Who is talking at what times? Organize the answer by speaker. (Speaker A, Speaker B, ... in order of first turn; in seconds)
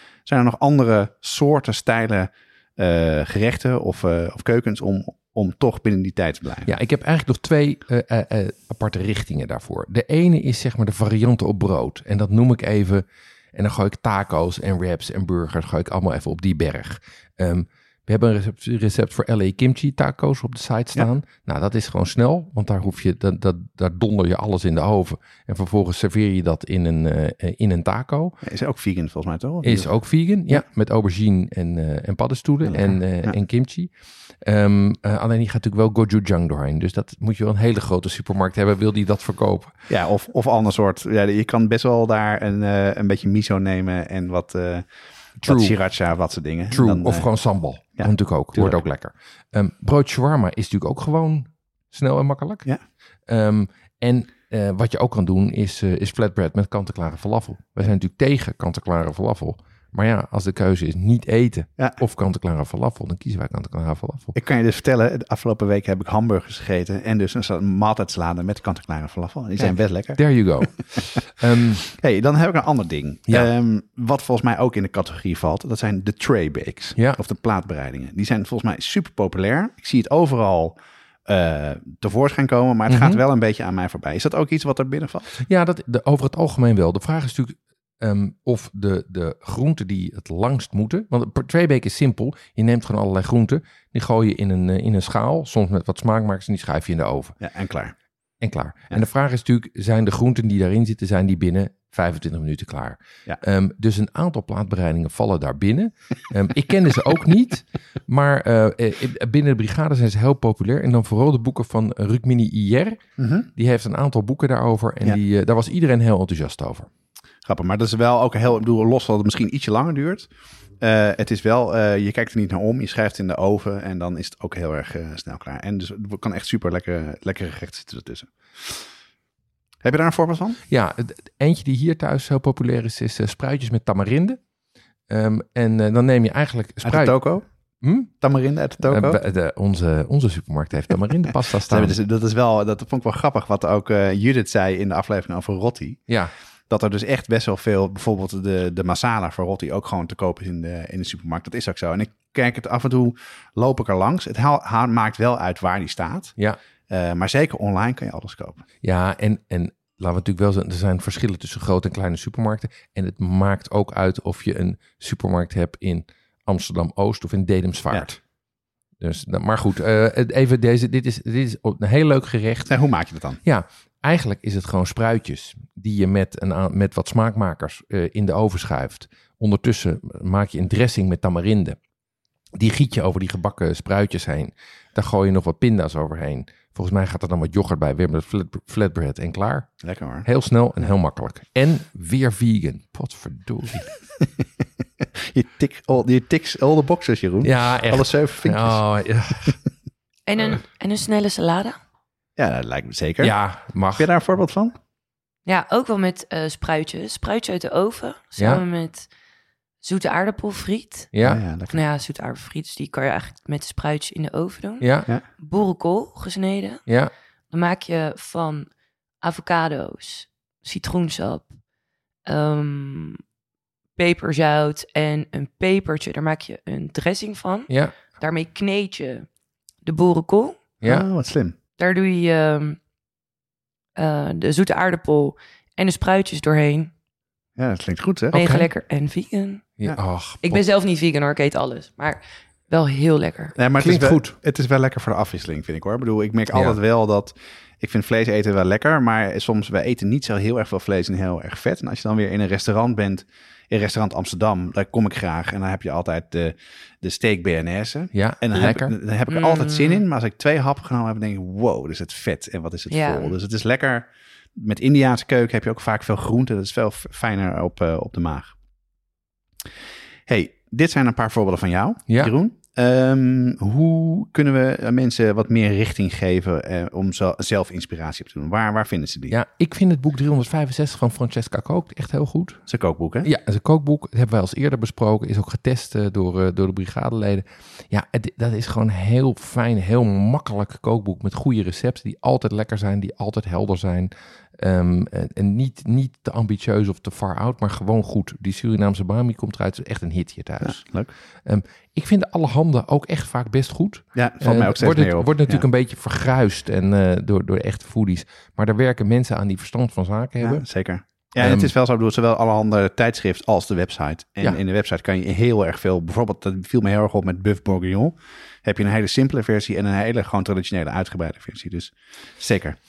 Speaker A: 0.2-6.7, 28.4-29.9, 32.6-33.4, 39.9-44.9, 45.4-47.3, 47.8-48.8, 64.3-71.0, 71.8-85.3, 97.4-97.9, 113.2-113.5, 117.5-120.3, 120.8-128.9, 129.8-130.6, 136.8-137.4, 138.1-139.2, 141.7-146.1, 146.7-156.3, 156.9-158.6, 172.7-173.4, 189.8-190.3, 195.0-198.8, 202.4-203.3, 203.9-204.7, 211.2-211.8, 230.8-231.5, 237.6-238.3, 243.6-268.5, 270.3-279.4, 282.7-283.3, 300.6-301.1, 304.1-305.6, 310.4-322.8
Speaker B: 6.7-28.4, 29.6-39.7, 45.4-45.8, 46.7-52.6, 53.3-64.3, 69.6-71.8, 82.9-83.2, 85.4-97.3, 98.4-116.9, 130.7-134.4, 135.1-137.2, 137.8-138.1, 138.8-142.0, 158.8-168.2, 169.0-172.7, 173.4-181.8, 182.5-193.8, 197.4-199.6, 203.2-204.1, 208.4-208.6, 211.1-211.4, 214.8-215.1, 227.7-227.9, 230.8-231.1, 238.3-238.7, 239.8-240.6, 243.8-244.3, 246.5-246.8, 258.1-258.9, 279.3-282.6, 283.2-300.9, 301.4-310.7, 311.4-311.7
Speaker C: 200.3-201.8, 205.4-209.1, 209.8-211.1, 211.7-216.9, 217.5-218.7, 219.2-221.5, 222.3-223.2, 224.0-229.3, 229.8-230.6, 231.8-232.8, 234.0-236.9, 238.3-239.7, 240.4-243.5, 259.3-260.0, 262.9-263.3